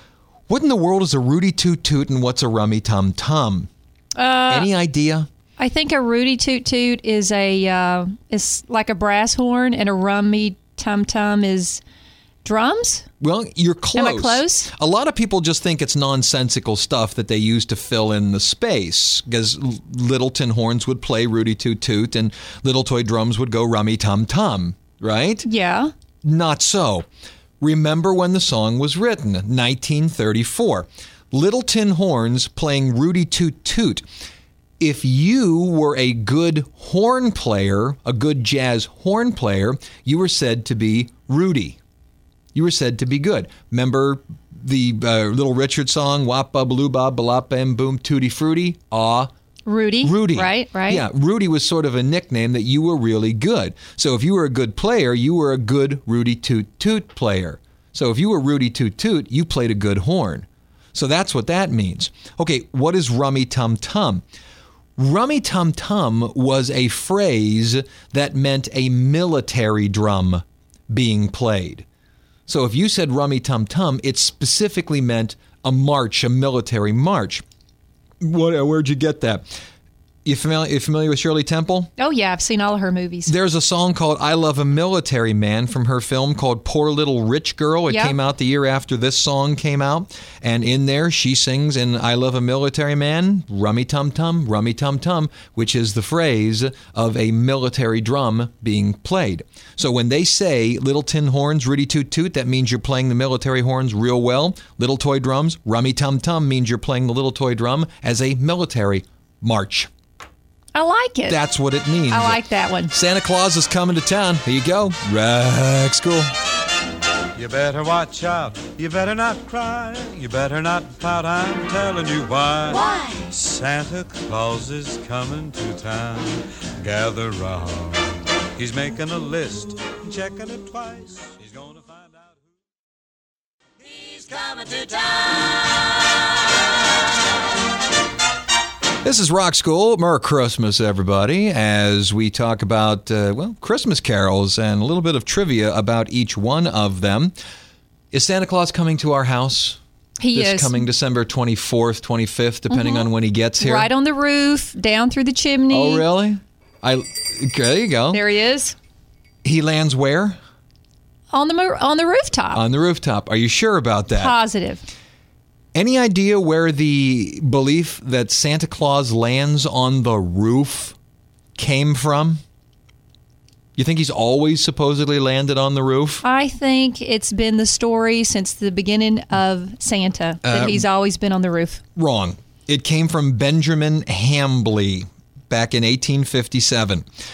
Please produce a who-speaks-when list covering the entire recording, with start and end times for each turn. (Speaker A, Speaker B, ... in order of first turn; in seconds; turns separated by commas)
Speaker A: 0.5-3.7, Speaker B: 4.2-4.7, Speaker A: 4.5-5.3, Speaker B: 5.6-11.8, Speaker B: 12.4-13.1, Speaker A: 13.2-25.5, Speaker B: 13.9-14.7, Speaker B: 25.4-25.9, Speaker A: 26.2-27.1, Speaker A: 27.6-34.0, Speaker A: 34.8-41.8, Speaker A: 42.5-49.3, Speaker B: 49.7-51.0, Speaker A: 50.0-64.2, Speaker A: 65.0-71.8, Speaker A: 72.5-77.4, Speaker A: 78.2-79.5, Speaker A: 80.2-81.9, Speaker B: 82.0-83.3, Speaker A: 83.3-109.9, Speaker B: 87.9-88.2, Speaker B: 110.7-111.4, Speaker A: 111.3-116.3, Speaker B: 112.1-112.9, Speaker C: 117.3-128.0, Speaker C: 128.6-132.3, Speaker C: 134.0-135.5, Speaker A: 139.0-147.3, Speaker A: 148.1-149.8, Speaker B: 150.2-150.8, Speaker A: 150.3-153.9, Speaker B: 152.7-153.1, Speaker B: 153.6-156.1, Speaker A: 155.7-158.2, Speaker B: 158.1-158.8, Speaker A: 159.4-160.4, Speaker B: 161.3-162.6, Speaker A: 162.5-164.3, Speaker B: 164.1-164.8, Speaker A: 165.8-170.9, Speaker A: 171.6-172.4, Speaker A: 173.8-176.2, Speaker B: 176.2-181.8, Speaker A: 180.4-180.8, Speaker A: 182.0-187.1